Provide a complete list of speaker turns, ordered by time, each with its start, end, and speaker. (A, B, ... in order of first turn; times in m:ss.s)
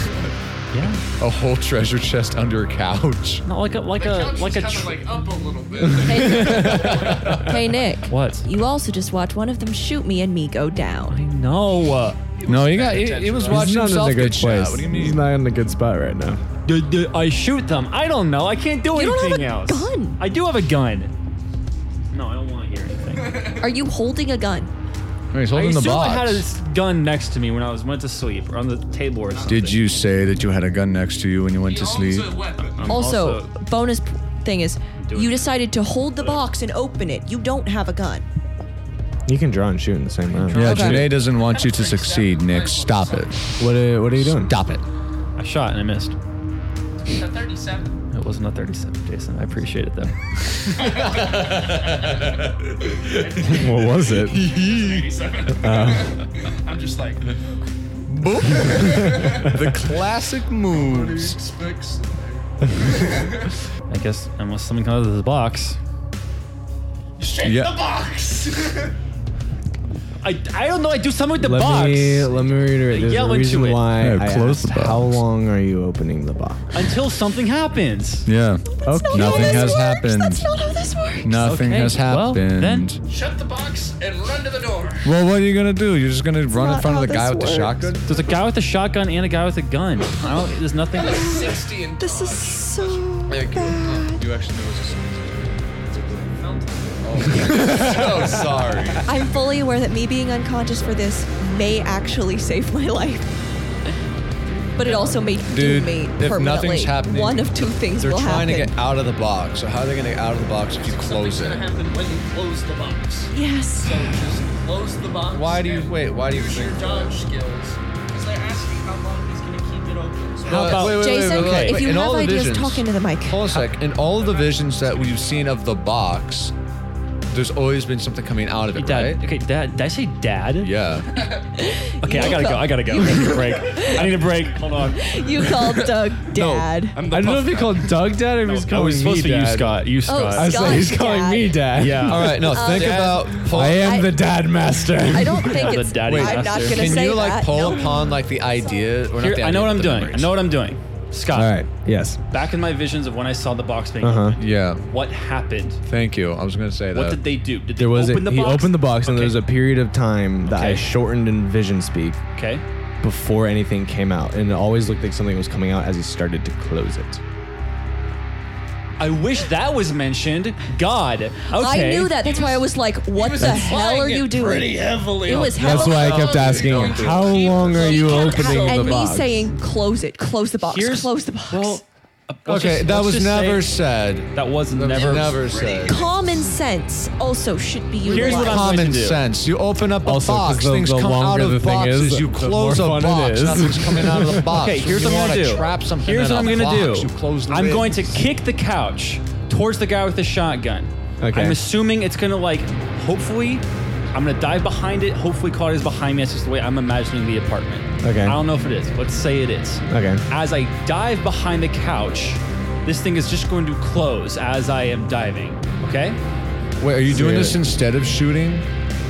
0:00.7-0:01.0 A
0:01.2-0:03.4 B
0:03.4-0:05.1 A
0:04.0-0:07.4 C
0:06.0-0:11.2 D
0:06.3-0:06.9 E
0:06.8-0:07.4 B
0:08.1-0:08.4 A
0:11.1-0:12.2 A
0:12.4-0:13.7 C
0:12.4-0:15.2 B
0:13.4-0:16.4 E
0:16.7-0:21.1 A
0:18.9-0:20.2 D
0:22.1-0:23.6 A
0:23.5-0:24.7 D
0:25.3-0:26.4 B
0:25.5-0:29.8 A
0:29.5-0:32.5 B
0:31.6-0:33.0 C
0:32.5-0:33.6 A
0:32.8-0:38.3 D
0:35.0-0:35.5 A
0:39.3-0:41.1 E
0:40.4-0:41.0 A
0:40.5-0:43.6 B
0:40.6-0:41.1 D
0:41.4-0:43.3 C
0:43.6-0:44.6 E
0:44.2-0:44.8 B
0:45.4-0:46.2 A
0:47.1-0:48.0 C
0:48.1-0:50.9 A
0:50.8-0:52.2 C
0:50.9-0:53.2 B
0:53.0-0:57.3 C
0:53.4-0:54.4 E
0:54.2-0:55.3 B
0:55.6-0:56.2 E
0:58.1-1:01.4 B
0:58.5-1:00.0 C
0:58.7-0:59.6 E
1:00.7-1:03.5 C
1:03.9-1:05.8 A
1:07.2-1:08.9 C
1:07.4-1:07.9 B
1:10.2-1:13.9 A
1:11.4-1:16.8 E
1:14.0-1:15.2 B
1:16.7-1:18.3 A
1:18.3-1:20.5 B
1:18.8-1:21.4 D
1:18.8-1:19.8 E
1:21.2-1:23.0 B
1:21.4-1:22.9 A
1:23.1-1:25.1 C
1:25.0-1:28.0 B
1:26.5-1:28.0 D
1:28.1-1:31.4 A
1:31.0-1:34.2 D
1:31.0-1:33.3 C
1:33.3-1:35.5 B
1:35.9-1:39.1 C
1:37.0-1:39.1 B
1:39.1-1:43.3 D
1:44.8-1:48.7 D
1:44.8-1:45.2 C
1:45.4-1:51.7 B
1:50.8-2:00.9 C
1:53.3-1:54.2 D
1:55.2-1:57.2 B
2:00.4-2:06.5 B
2:00.5-2:01.9 A
2:00.7-2:03.6 D
2:04.1-2:05.6 C
2:07.3-2:09.3 B
2:08.7-2:10.7 A
2:10.6-2:11.3 B
2:11.6-2:14.2 D
2:12.0-2:15.4 A
2:14.8-2:17.0 D
2:16.3-2:18.0 C
2:17.1-2:19.8 E
2:18.4-2:20.8 A
2:20.1-2:21.7 D
2:20.3-2:25.8 E
2:21.8-2:23.2 A
2:22.0-2:24.0 B
2:22.4-2:24.2 D
2:25.1-2:28.3 D
2:25.5-2:27.0 A
2:25.9-2:30.4 B
2:29.2-2:31.7 A
2:31.3-2:32.2 E
2:32.3-2:35.8 A
2:34.0-2:34.4 E
2:34.4-2:34.8 B
2:35.9-2:37.2 B
2:36.9-2:39.5 A
2:37.8-2:42.2 E
2:40.4-2:41.0 A
2:42.4-2:42.6 A
2:43.0-2:47.2 E
2:49.0-2:52.4 A
2:51.5-2:56.5 D
2:52.2-2:52.6 C
2:53.1-2:59.2 C
2:53.4-2:53.8 E
2:55.3-2:55.6 A
2:55.6-2:59.4 E
2:56.7-2:57.0 B
2:57.5-3:01.8 D
3:00.7-3:03.7 A
3:02.4-3:06.0 B
3:04.3-3:05.5 A
3:04.9-3:06.1 C
3:05.8-3:08.7 D
3:08.0-3:09.2 A
3:08.1-3:18.2 B
3:10.0-3:14.6 E
3:14.5-3:36.2 A
3:21.2-3:21.6 E
3:28.0-3:28.4 E
3:29.9-3:30.2 E
3:36.8-3:38.7 B
3:37.1-3:37.6 E